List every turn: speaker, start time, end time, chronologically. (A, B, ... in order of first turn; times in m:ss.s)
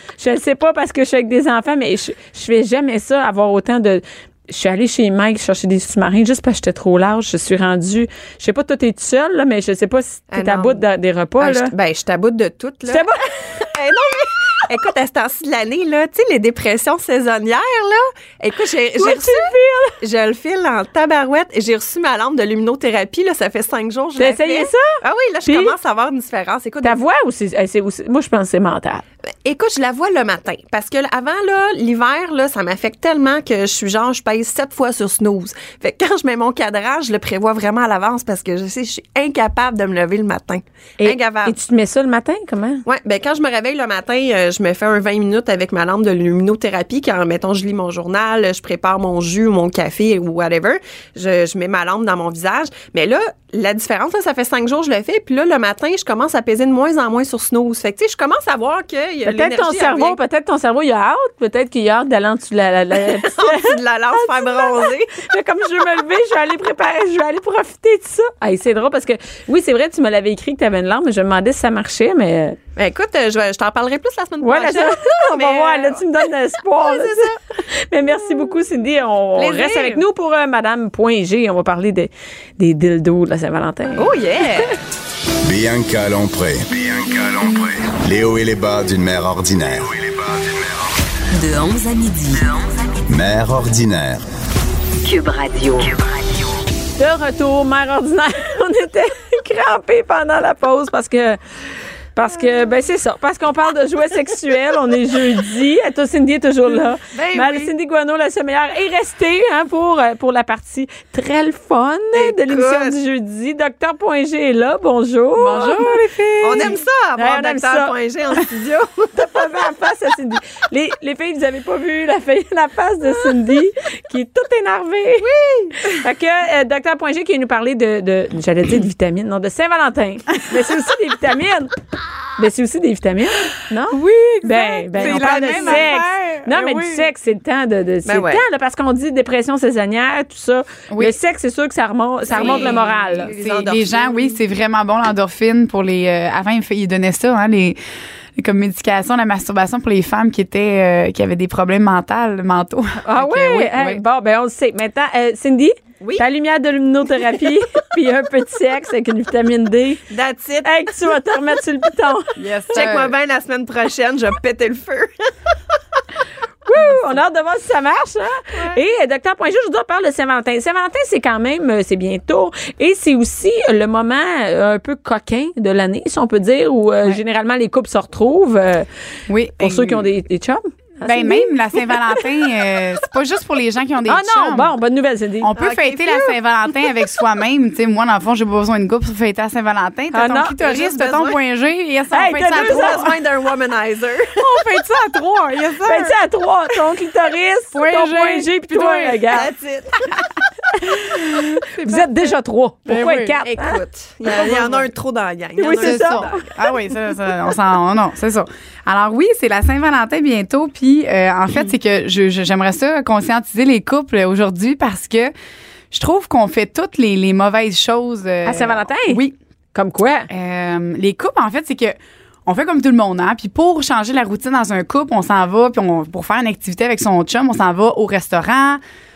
0:00.2-0:11.7 A
0:10.3-0:10.8 B
0:11.4-0:13.1 B
0:12.9-0:13.7 A
0:13.6-0:27.0 B
0:19.0-0:20.0 A
0:24.2-0:25.7 A
0:26.8-0:29.0 A
0:29.4-0:41.6 B
0:41.0-0:42.8 A
0:42.8-1:00.2 B
0:59.2-1:12.6 A
1:02.9-1:05.2 B
1:12.8-1:16.0 B
1:14.4-1:24.1 A
1:16.8-1:17.4 B
1:19.4-1:20.0 B
1:24.0-1:24.7 B
1:25.4-1:30.9 C
1:31.3-1:33.0 D
1:33.1-1:34.2 C
1:35.0-1:36.5 D
1:36.9-1:41.4 A
1:42.1-1:57.9 A
1:47.1-1:47.7 B
1:52.1-1:53.0 B
1:55.4-1:56.8 E
1:56.4-1:59.1 B
1:59.1-2:05.3 A
2:05.2-2:05.8 B
2:05.9-2:11.7 A
2:12.4-2:23.4 A
2:13.9-2:17.1 E
2:15.0-2:15.9 B
2:18.0-2:18.4 B
2:20.9-2:21.2 E
2:22.3-2:24.4 B
2:22.3-2:27.8 E
2:28.4-2:34.0 E
2:33.0-2:40.0 A
2:40.1-2:40.8 B
2:40.6-2:42.4 A
2:42.4-2:43.1 E
2:42.7-2:45.3 B
2:46.6-2:58.9 A
2:59.3-3:00.1 E
2:59.6-3:02.0 A
3:01.0-3:04.7 E
3:04.1-3:05.5 A
3:05.4-3:13.2 E
3:05.6-3:06.4 B
3:10.1-3:10.6 A
3:10.6-3:11.4 B
3:12.1-3:13.0 A
3:12.5-3:14.7 B
3:14.4-3:16.2 E
3:15.8-3:19.5 A
3:17.7-3:19.3 E
3:19.3-3:20.1 B
3:20.8-3:23.8 A
3:21.2-3:22.1 E
3:22.8-3:23.4 E
3:23.4-3:26.5 B
3:24.3-3:24.8 E
3:25.6-3:26.4 A
3:25.7-3:35.3 E
3:35.9-3:39.3 E
3:38.4-3:39.2 A
3:39.7-3:40.3 A
3:40.3-3:48.8 E